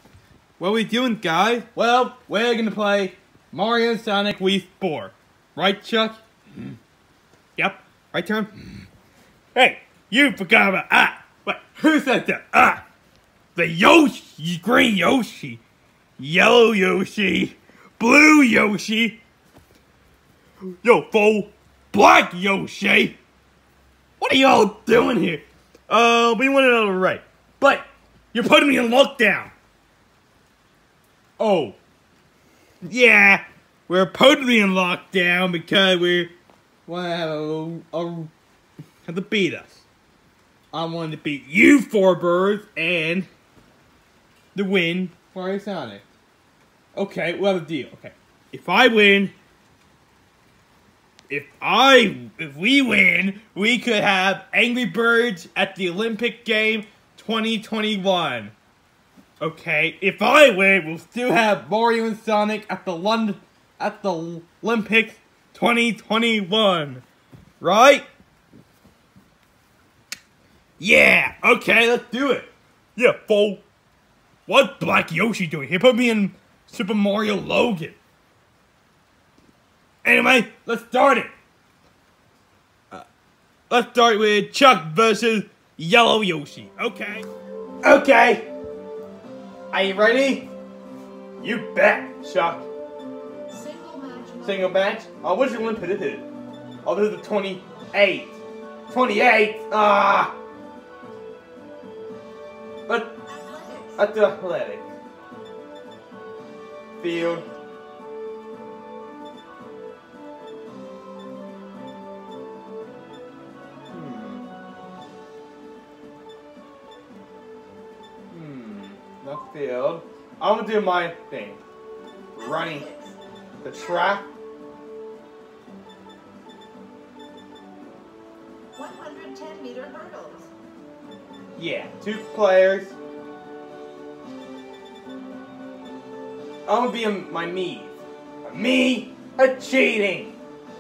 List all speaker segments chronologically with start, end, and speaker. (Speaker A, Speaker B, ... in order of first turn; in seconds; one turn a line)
Speaker A: 0.6-6.2
Speaker A: 7.6-8.5
Speaker A: 9.6-12.8
Speaker A: 13.6-15.6
Speaker A: 16.2-19.2
Speaker A: 20.8-23.2
Speaker A: 24.2-29.5
Speaker A: 31.4-31.8
Speaker A: 32.9-36.3
Speaker A: 36.9-38.3
Speaker A: 39.0-39.8
Speaker A: 40.7-43.3
Speaker A: 44.5-46.0
Speaker A: 47.0-49.3
Speaker A: 51.3-58.5
Speaker A: 59.4-67.0
Speaker A: 67.6-68.1
Speaker A: 70.8-73.6
Speaker A: 74.5-78.0
Speaker A: 80.0-81.3
Speaker A: 83.7-87.3
Speaker A: 87.8-88.5
Speaker A: 89.7-90.5
Speaker A: 91.4-92.7
Speaker B: 93.5-94.8
Speaker A: 94.4-96.3
Speaker A: 96.8-100.3
Speaker A: 102.9-103.1
Speaker B: 103.3-104.1
Speaker A: 104.0-104.9
Speaker A: 107.0-107.5
Speaker A: 113.9-114.4
Speaker A: 118.3-121.6
Speaker A: 122.3-122.9
Speaker B: 122.4-123.2
Speaker A: 123.6-124.2
Speaker B: 123.7-124.1
Speaker B: 128.8-130.5
Speaker A: 131.6-133.0
Speaker A: 136.7-140.3